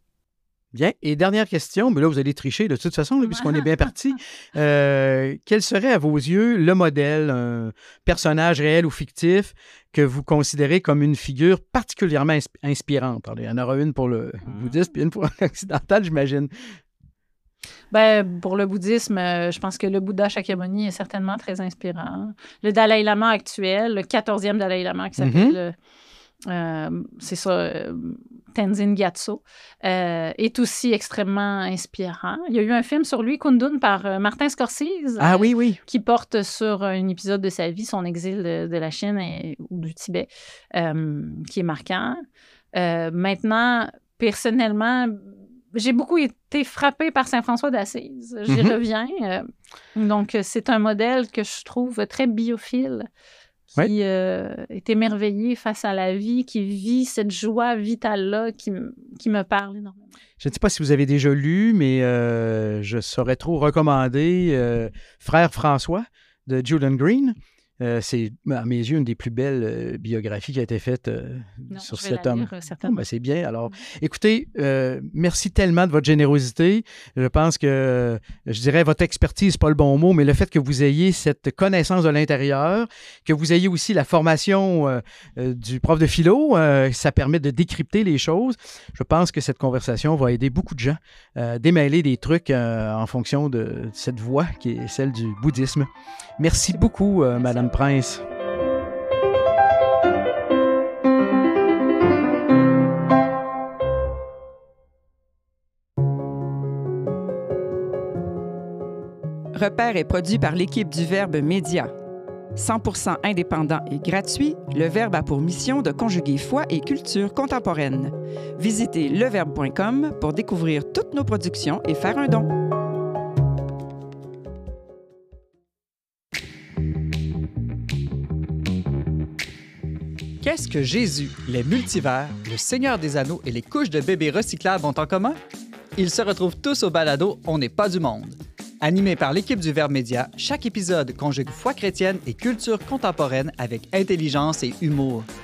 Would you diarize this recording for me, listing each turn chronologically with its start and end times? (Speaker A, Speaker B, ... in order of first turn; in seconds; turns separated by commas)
Speaker A: 0.7-16.5, Speaker B: 17.9-25.7, Speaker A: 25.2-25.6, Speaker B: 26.5-42.2, Speaker A: 35.2-35.8, Speaker B: 42.7-53.1, Speaker A: 48.5-48.7, Speaker B: 53.7-60.1, Speaker A: 60.4-98.2, Speaker B: 71.7-73.0, Speaker B: 97.3-97.7, Speaker C: 109.5-111.9, Speaker C: 112.5-122.5, Speaker D: 130.4-135.4, Speaker D: 135.9-145.3